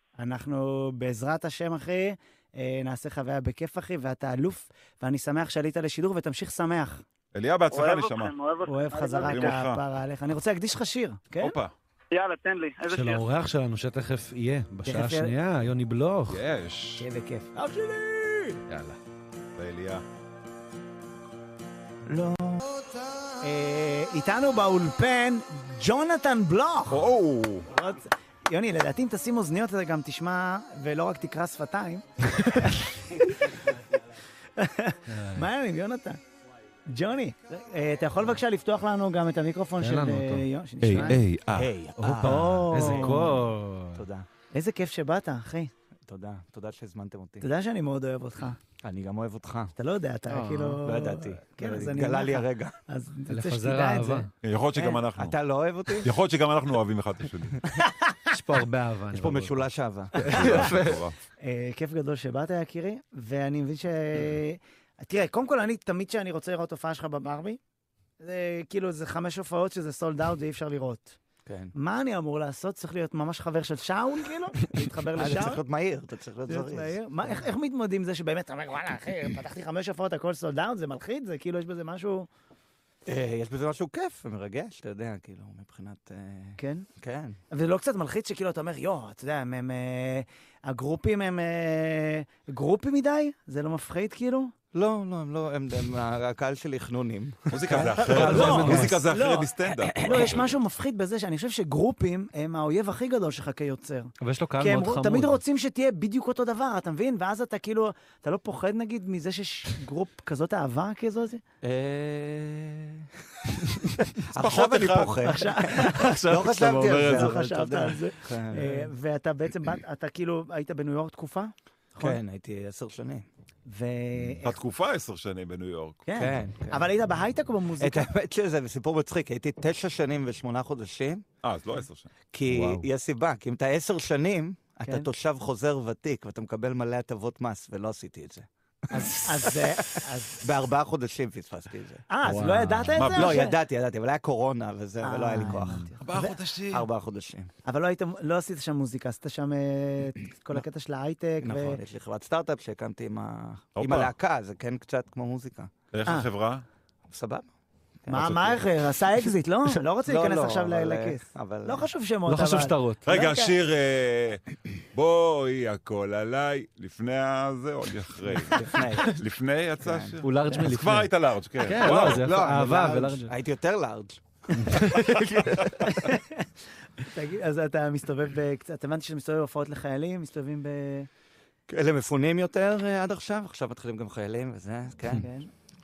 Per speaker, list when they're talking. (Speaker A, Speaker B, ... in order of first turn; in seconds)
Speaker A: 0.2-7.0, 8.7-11.6, 14.8-15.3, 17.0-18.6, 22.1-22.7, 23.4-27.0, 27.7-32.0, 32.6-33.6, 34.6-36.2, 36.9-41.2, 42.2-43.3, 44.5-45.7, 47.4-48.6, 49.8-54.3, 57.8-58.1, 61.4-67.6, 68.2-71.2, 71.7-75.6, 76.5-82.3, 86.6-86.9, 87.5-94.5, 97.7-111.4, 115.3-116.0, 116.9-122.2, 123.7-124.6, 126.0-128.1, 134.8-135.1, 138.9-140.4, 142.1-143.6, 145.0-146.4, 147.6-151.8, 158.1-163.5, 174.7-176.5, 177.0-181.1, 185.1-185.5
Speaker B: 7.3-8.3, 9.3-9.8, 11.4-11.7, 16.3-17.1, 19.6-20.0, 26.9-27.7, 40.9-41.7, 54.4-55.4, 56.0-57.6, 60.2-61.1, 97.5-100.4, 114.3-115.4, 124.4-126.0, 131.4-132.1, 142.9-143.4, 146.0-146.9, 153.8-154.1, 155.9-156.6, 163.0-172.3
Speaker C: 7.7-9.5, 12.1-13.2
Speaker D: 12.9-16.4, 18.7-19.0, 32.3-32.8, 35.1-35.5, 39.8-41.2, 42.0-44.0, 50.3-50.8, 53.3-54.3, 58.3-61.0, 98.1-99.0, 104.2-105.4, 115.9-117.4, 132.5-132.9, 142.2-143.0, 162.3-163.0, 170.2-171.1, 171.6-173.3, 174.6-175.3
Speaker E: 41.5-43.4, 44.0-44.3, 46.1-47.5, 48.8-49.7, 50.8-52.8, 54.8-56.1, 59.1-60.7, 71.5-71.7, 75.2-77.4, 83.0-87.4, 94.7-98.4, 99.7-100.5, 111.6-113.1, 114.3-118.9, 122.0-123.2, 126.1-126.9, 127.8-131.2, 132.3-142.0, 143.1-145.9, 146.7-147.5, 151.4-155.7, 157.1-157.5, 158.0-158.6, 159.7-161.9, 168.5-169.2, 169.8-170.2, 171.8-175.8, 181.7-185.3